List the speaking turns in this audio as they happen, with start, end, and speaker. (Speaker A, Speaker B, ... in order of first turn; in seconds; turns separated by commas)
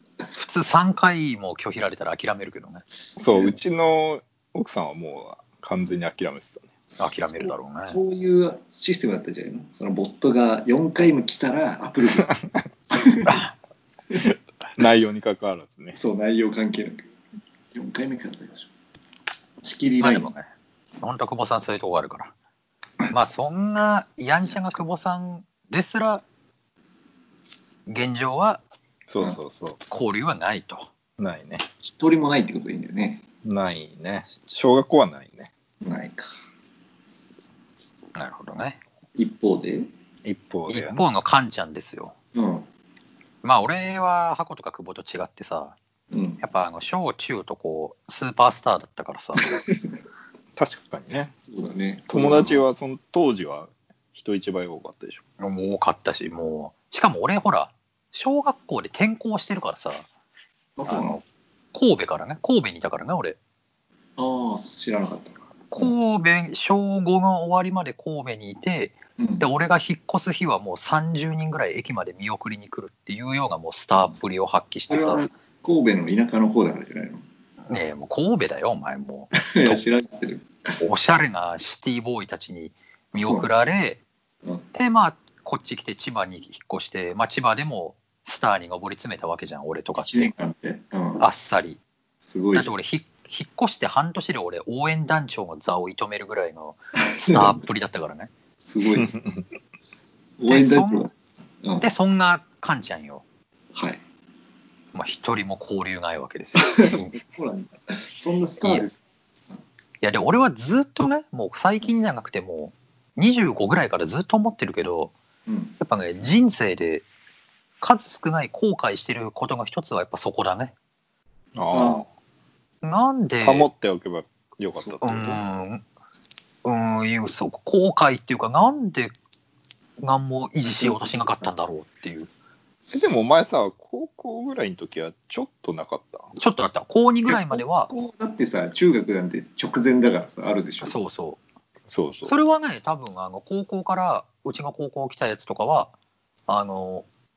Speaker A: 0.3-2.9, Speaker B: 3.2-6.7, Speaker C: 3.2-3.6, Speaker A: 7.0-8.0, Speaker C: 7.4-13.4, Speaker B: 14.8-16.0, Speaker C: 15.9-17.1, Speaker C: 17.7-18.7, Speaker C: 19.6-20.3, Speaker A: 20.0-20.5, Speaker A: 21.0-22.3, Speaker A: 23.1-26.2, Speaker A: 27.9-28.6, Speaker B: 29.1-29.8, Speaker A: 29.9-30.9, Speaker B: 31.2-31.7, Speaker C: 31.8-33.2, Speaker B: 33.4-35.5, Speaker C: 35.8-36.4, Speaker A: 38.1-38.8, Speaker C: 39.2-39.9, Speaker B: 40.2-41.0, Speaker A: 40.7-42.1, Speaker C: 42.3-42.7, Speaker A: 43.4-45.8, Speaker C: 46.1-46.4, Speaker A: 46.4-49.6, Speaker C: 49.4-49.8, Speaker B: 50.6-51.3, Speaker C: 51.4-52.6, Speaker B: 52.1-55.2, Speaker A: 55.4-60.1, Speaker C: 60.8-61.2, Speaker A: 60.9-61.2, Speaker A: 61.7-63.4, Speaker C: 64.2-65.9, Speaker A: 65.7-75.3, Speaker C: 69.2-69.5, Speaker C: 74.9-77.2, Speaker A: 77.7-79.8, Speaker C: 79.4-80.8, Speaker A: 80.8-84.0, Speaker C: 83.2-83.5, Speaker A: 84.7-90.3, Speaker C: 90.0-91.3, Speaker A: 91.2-91.8, Speaker C: 92.2-92.7, Speaker A: 92.5-98.3, Speaker C: 97.2-97.5, Speaker C: 98.6-99.1, Speaker B: 99.0-99.5, Speaker C: 100.4-101.9, Speaker A: 100.5-101.1, Speaker A: 101.8-103.2, Speaker A: 104.9-107.2, Speaker C: 106.6-109.0, Speaker A: 110.0-115.1, Speaker C: 115.5-115.8, Speaker A: 115.8-117.0, Speaker A: 117.8-120.7, Speaker B: 121.6-122.0, Speaker C: 121.7-122.1, Speaker A: 122.8-123.7, Speaker B: 123.4-125.4, Speaker A: 125.0-125.8, Speaker A: 126.6-129.2, Speaker A: 130.0-132.3, Speaker C: 130.8-131.2, Speaker B: 132.9-136.3, Speaker A: 136.4-137.9, Speaker C: 137.3-141.0, Speaker A: 140.8-141.4, Speaker B: 141.9-142.3, Speaker A: 142.3-145.9, Speaker A: 146.5-147.1